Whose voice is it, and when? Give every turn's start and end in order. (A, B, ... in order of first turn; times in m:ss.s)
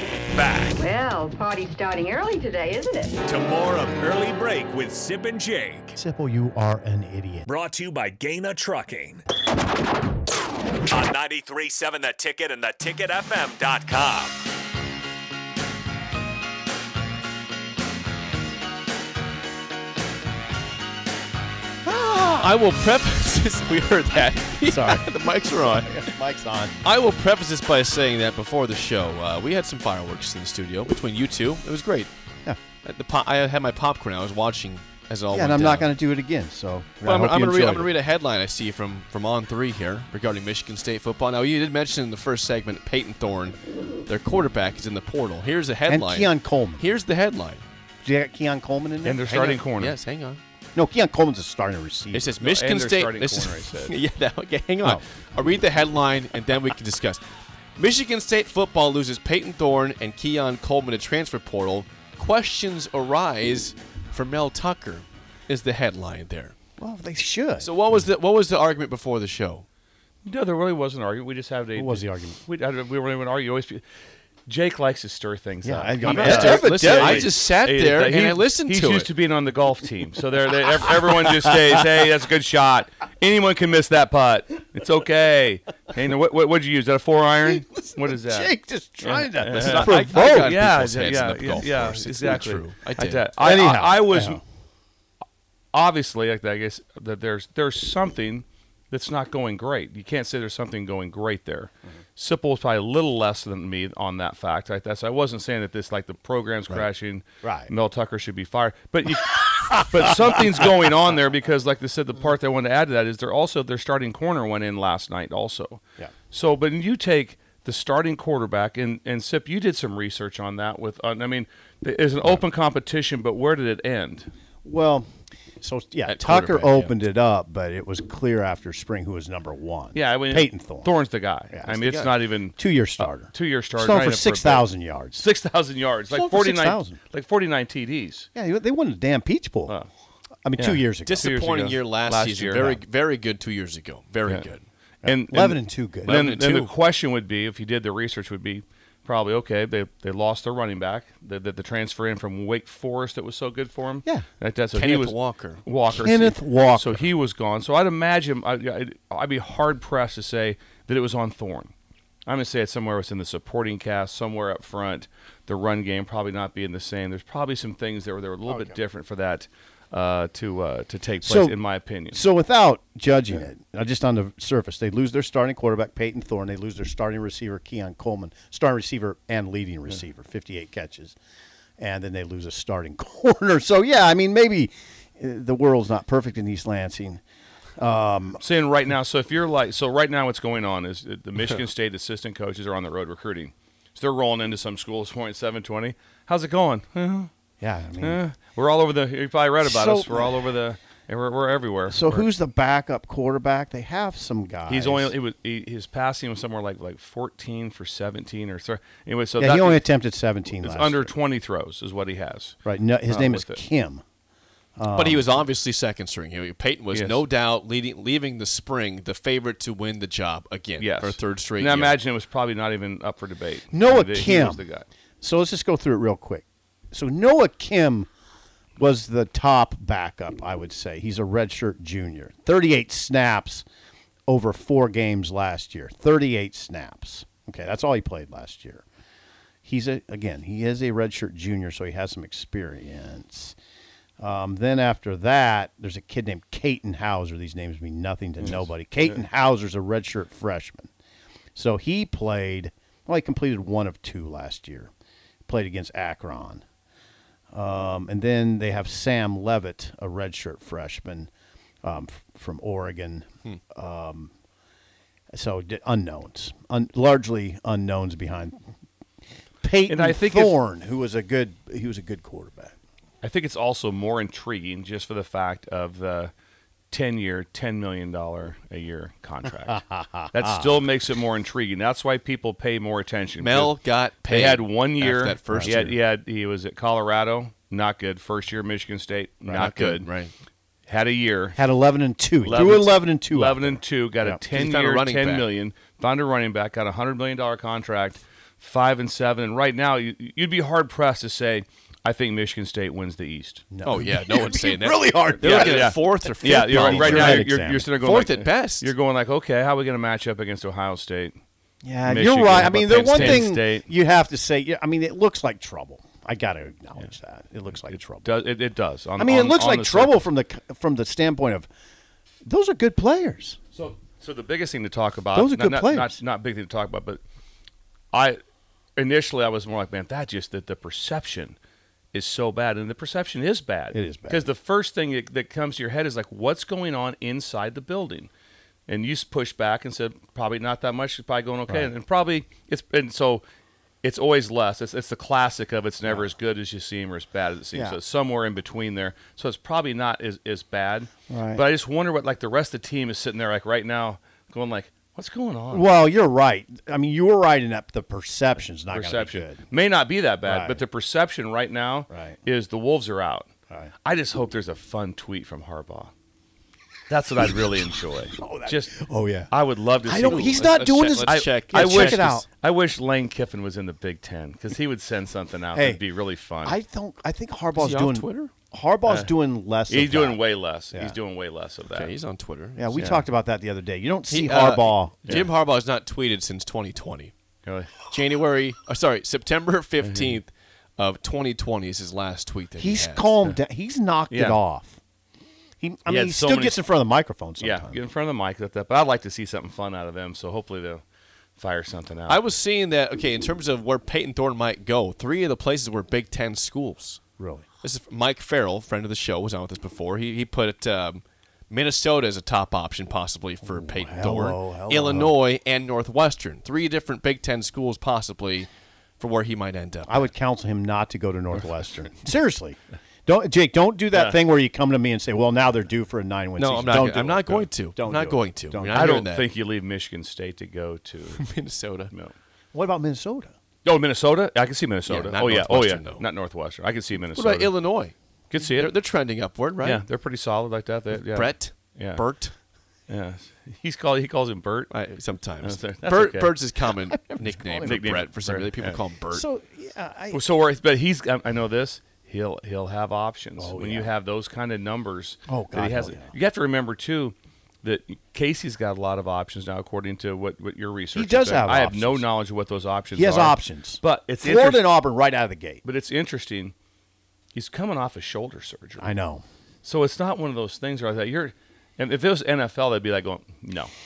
0:00.3-0:00.8 A
0:00.8-0:03.2 B
0:03.3-0:05.9 A
0:05.9-0:07.4 C
0:07.5-0:09.2 A
0:10.8-0:14.4 A
0:21.8-0:22.5 C
0:22.4-0:26.0 D
0:24.6-0:26.7 C
0:26.8-0:32.1 D
0:32.8-0:35.9 D
0:35.3-0:37.9 C
0:37.0-0:47.6 D
0:45.9-0:46.8 C
0:48.0-0:49.6 C
0:49.0-0:50.0 E
0:49.3-0:50.4 D
0:50.7-0:52.3 C
0:52.1-0:57.2 D
0:52.4-0:54.0 E
0:57.8-1:06.5 D
1:06.8-1:07.7 C
1:07.6-1:09.6 D
1:10.2-1:13.8 E
1:11.8-1:12.4 C
1:14.5-1:34.4 E
1:15.6-1:17.3 C
1:16.0-1:19.1 D
1:21.3-1:21.7 C
1:27.4-1:30.6 C
1:29.5-1:33.3 D
1:33.4-1:34.4 C
1:35.7-2:04.3 E
1:47.4-1:47.7 C
1:49.8-1:50.7 C
2:04.6-2:05.1 C
2:05.6-2:10.9 C
2:06.0-2:06.9 D
2:09.9-2:18.3 E
2:11.5-2:15.2 C
2:16.1-2:17.0 C
2:18.3-2:19.8 C
2:20.4-2:21.4 C
2:20.6-2:22.8 E
2:21.0-2:24.7 D
2:25.0-2:26.2 C
2:25.0-2:41.7 E
2:26.0-2:26.7 D
2:34.7-2:35.6 D
2:35.9-2:37.1 C
2:42.3-2:52.2 E
2:48.4-2:48.8 C
2:51.2-2:51.6 C
2:52.1-3:01.2 C
3:01.8-3:07.2 C
3:07.8-3:08.4 C
3:08.4-3:17.3 E
3:17.6-3:18.2 C
3:18.0-3:22.3 E
3:19.6-3:20.4 C
3:21.9-3:25.1 C
3:24.7-3:29.8 E
3:29.4-3:31.1 C
3:30.5-3:33.6 E
3:32.6-3:34.0 C
3:34.8-3:35.3 C
3:34.9-3:42.0 D
3:36.9-3:37.2 E
3:40.8-3:44.9 E
3:43.7-3:44.6 C
3:45.2-3:48.1 C
3:48.8-3:53.6 C
3:54.3-3:58.8 C
3:59.6-4:03.6 C
4:04.2-4:10.9 C
4:08.4-4:09.1 E
4:11.5-4:14.9 C
4:15.5-4:16.6 C
4:17.5-4:21.3 C
4:21.8-4:24.3 C
4:25.3-4:28.6 C
4:29.6-4:32.7 C
4:29.9-4:30.5 E
4:33.2-4:36.3 E
4:36.9-4:43.8 E
4:39.6-4:40.7 C
4:43.4-4:46.0 D
4:44.3-4:50.1 E
4:45.5-4:45.8 C
4:49.5-4:50.3 D
4:50.9-4:51.6 E
4:51.6-4:54.4 C
4:52.4-5:03.6 E
4:54.5-4:55.5 D
5:03.7-5:07.9 C
5:03.8-5:08.9 D
5:05.4-5:11.4 E
5:11.8-5:18.3 C
5:12.0-5:13.9 E
5:12.9-5:13.4 D
5:17.9-5:20.2 E
5:19.2-5:21.7 C
5:22.4-5:23.6 C
5:23.7-5:27.2 E
5:25.3-5:26.2 C
5:28.1-5:28.4 E
5:29.0-5:31.6 E
5:32.1-5:38.3 E
5:33.9-5:34.5 C
5:38.9-5:43.4 E
5:44.0-5:55.9 E
5:47.7-5:48.0 C
5:51.3-5:51.6 C
5:55.7-5:59.6 C
5:58.9-6:03.5 E
6:00.4-6:00.8 C
6:02.1-6:02.4 C
6:04.0-6:06.1 E
6:07.1-6:09.0 E
6:08.4-6:09.5 C
6:09.5-6:10.7 E
6:10.0-6:12.4 C
6:10.2-6:12.3 D
6:11.2-6:16.8 E
6:15.7-6:16.0 C
6:16.6-6:21.2 C
6:17.8-6:18.5 D
6:19.0-6:19.3 E
6:19.9-6:22.1 E
6:21.9-6:23.0 D
6:22.8-6:25.2 C
6:23.0-6:23.2 E
6:24.3-6:27.3 D
6:25.2-6:25.5 E
6:27.6-6:27.9 E
6:28.1-6:33.4 D
6:30.0-6:30.4 E
6:32.8-6:35.0 C
6:34.3-6:34.6 E
6:35.8-6:38.0 C
6:36.1-6:36.8 E
6:37.6-6:41.0 E
6:41.6-6:42.4 E
6:42.3-6:47.2 D
6:47.4-6:47.6 C
6:47.8-7:00.3 D
6:53.6-6:55.4 C
7:00.1-7:09.2 C
7:04.1-7:04.4 E
7:06.6-7:09.5 D
7:08.9-7:11.4 E
7:11.3-7:12.1 D
7:12.7-7:13.5 C
7:13.8-7:17.7 E
7:15.0-7:16.2 D
7:17.3-7:18.1 D
7:18.5-7:18.9 E
7:18.6-7:20.0 D
7:19.8-7:22.2 E
7:21.1-7:22.5 D
7:23.1-7:24.9 E
7:24.9-7:29.4 D
7:25.6-7:26.6 E
7:26.9-7:28.1 C
7:27.8-7:29.0 E
7:29.3-7:30.4 C
7:30.3-7:44.9 E
7:33.6-7:34.1 C
7:35.5-7:36.3 C
7:41.1-7:42.2 C
7:43.1-7:45.8 C
7:45.8-7:46.7 E
7:47.5-7:49.1 E
7:49.0-7:49.4 C
7:49.8-7:53.9 E